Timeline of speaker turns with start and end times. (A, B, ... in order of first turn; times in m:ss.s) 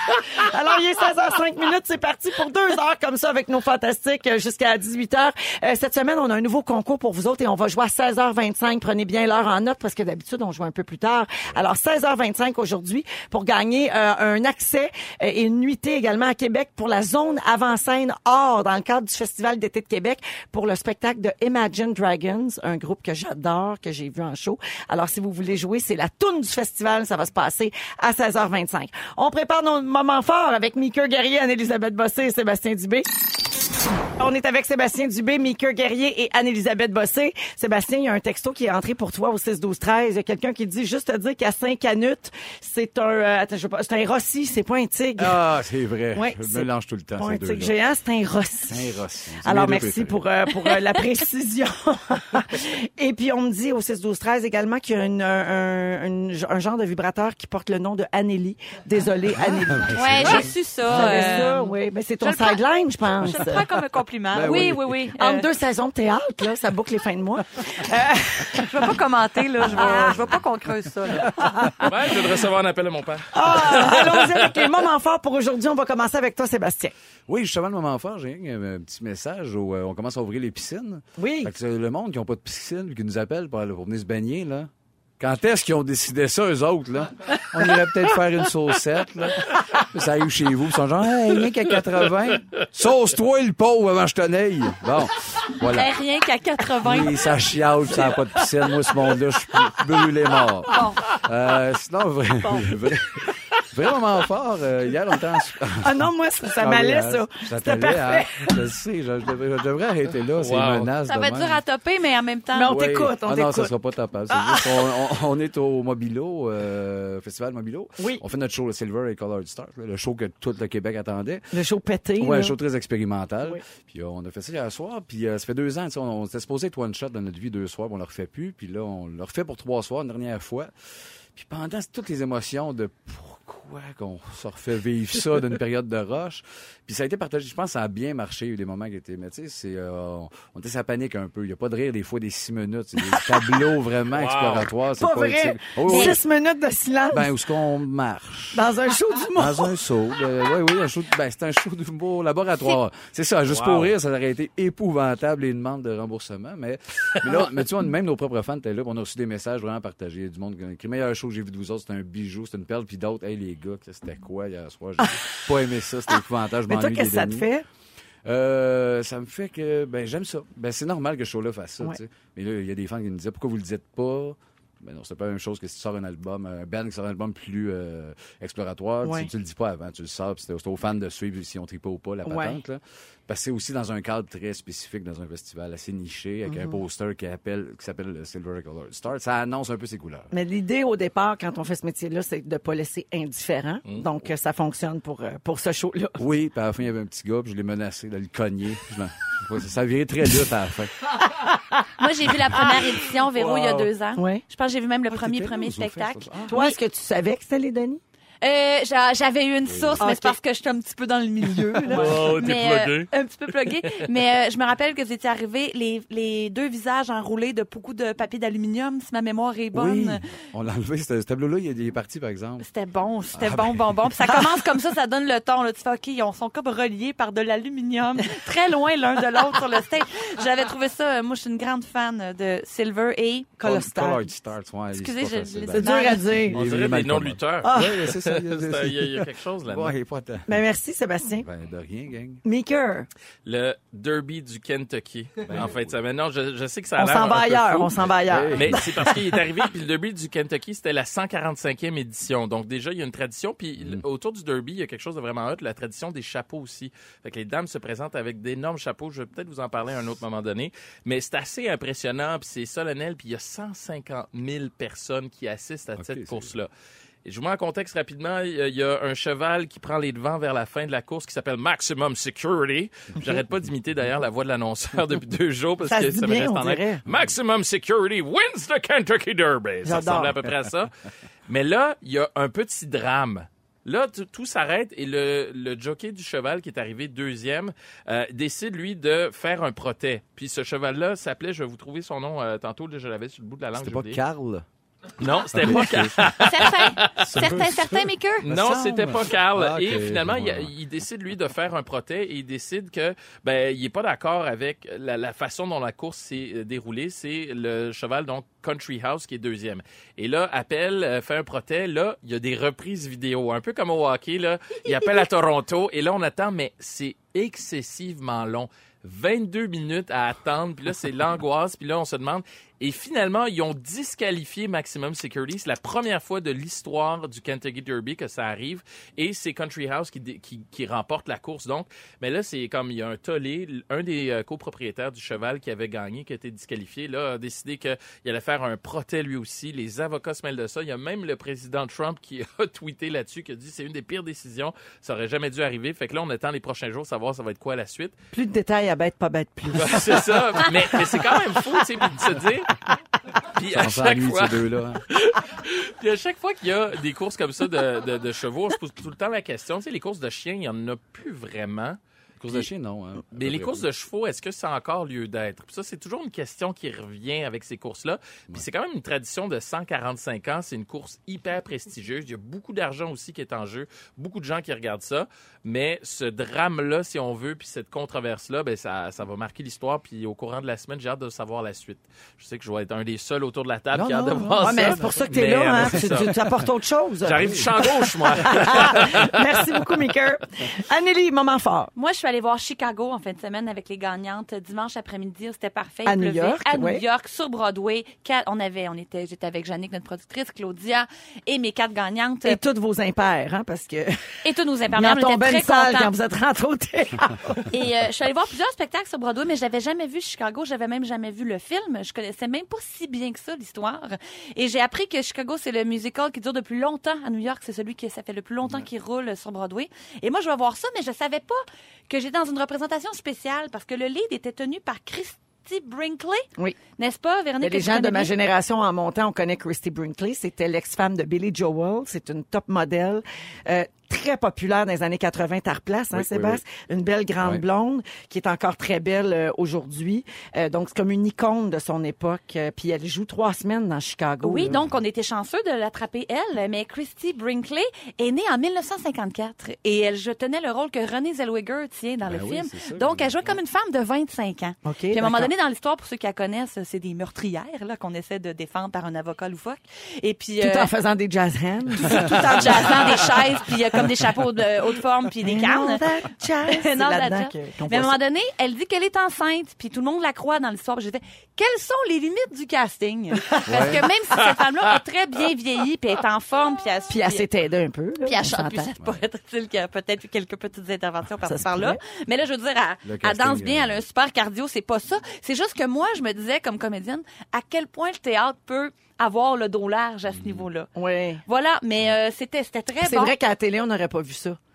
0:00.2-0:33.3 A
0:34.2-0:45.4 A
0:45.2-0:47.7 B
0:46.1-1:03.6 A
0:48.7-0:50.2 B
0:59.3-1:01.3 B
0:59.9-1:02.6 C
1:03.2-1:05.5 C
1:04.3-1:05.0 B
1:04.4-1:09.0 A
1:08.6-1:11.4 C
1:09.6-1:11.7 B
1:09.7-1:10.1 A
1:11.3-1:11.9 A
1:11.8-1:14.6 D
1:13.3-1:16.9 A
1:17.3-1:35.9 B
1:21.2-1:21.5 A
1:35.7-1:37.3 C
1:36.8-1:51.6 B
1:40.7-1:41.1 C
1:45.8-1:48.6 A
1:50.4-1:50.9 D
1:51.0-1:52.8 C
1:52.5-1:53.7 A
1:52.7-2:01.5 B
1:54.3-1:54.9 A
2:01.5-2:02.5 A
2:02.2-2:10.7 B
2:11.3-2:26.2 B
2:23.1-2:23.5 A
2:24.1-2:24.7 D
2:25.0-2:27.3 A
2:25.9-2:26.1 C
2:27.1-2:28.6 B
2:28.5-2:29.7 A
2:29.3-2:47.5 B
2:33.5-2:33.9 D
2:46.7-2:47.6 A
2:48.2-3:10.3 B
2:59.0-2:59.3 A
3:02.2-3:02.6 A
3:06.5-3:06.8 A
3:10.3-3:16.2 A
3:16.2-3:20.9 B
3:22.0-3:26.8 C
3:23.3-3:23.9 D
3:24.2-3:24.4 A
3:25.1-3:26.6 B
3:26.5-3:28.0 A
3:28.4-3:40.2 C
3:29.6-3:30.0 B
3:30.0-3:30.4 A
3:31.5-3:32.3 A
3:31.9-3:33.1 D
3:39.7-3:42.6 B
3:42.6-3:53.5 C
3:43.3-3:44.3 B
3:53.6-3:54.2 A
3:53.6-4:00.6 B
3:54.9-3:56.3 C
3:55.8-3:56.7 A
3:56.5-3:59.9 D
3:57.6-3:58.0 A
4:00.5-4:01.5 A
4:01.4-4:02.4 B
4:02.4-4:03.1 A
4:03.4-4:07.9 D
4:05.4-4:05.9 B
4:07.0-4:09.4 A
4:08.2-4:08.8 B
4:08.5-4:26.7 D
4:13.8-4:14.0 B
4:26.0-4:26.5 B
4:27.2-4:40.9 D
4:35.9-4:37.0 A
4:39.8-4:40.4 A
4:41.5-4:54.2 D
4:53.7-4:54.6 B
4:55.2-4:57.5 D
4:55.5-4:56.2 B
4:56.4-4:58.4 C
4:57.2-5:00.7 B
4:58.4-5:48.1 D
5:48.3-5:51.3 A
5:49.7-5:52.8 D
5:53.5-6:02.0 D
5:53.7-5:55.0 B
6:02.4-6:03.8 B
6:03.3-6:26.4 D
6:23.9-6:25.2 B
6:24.2-6:31.9 A
6:27.2-6:29.4 D
6:27.4-6:27.7 B
6:32.0-6:42.6 C
6:36.0-6:37.0 A
6:42.4-6:44.3 A
6:44.4-6:46.1 C
6:44.9-6:47.7 A
6:47.7-7:06.4 C
7:07.0-7:08.3 C
7:07.6-7:24.7 A
7:16.1-7:16.6 B
7:24.4-7:40.9 C
7:24.6-7:24.9 B
7:32.2-7:33.5 B
7:34.8-7:35.5 A
7:40.6-7:43.3 A
7:42.0-7:46.0 C
7:45.4-7:48.2 A
7:46.7-7:57.4 C
7:53.5-7:54.0 A
7:53.6-7:54.0 B
7:57.1-7:58.9 A
7:58.2-8:10.9 C
7:59.0-7:59.2 B
8:01.4-8:02.0 A
8:03.0-8:04.0 B
8:10.3-8:10.6 B
8:10.9-8:11.4 A
8:11.4-8:13.3 C
8:13.0-8:14.6 A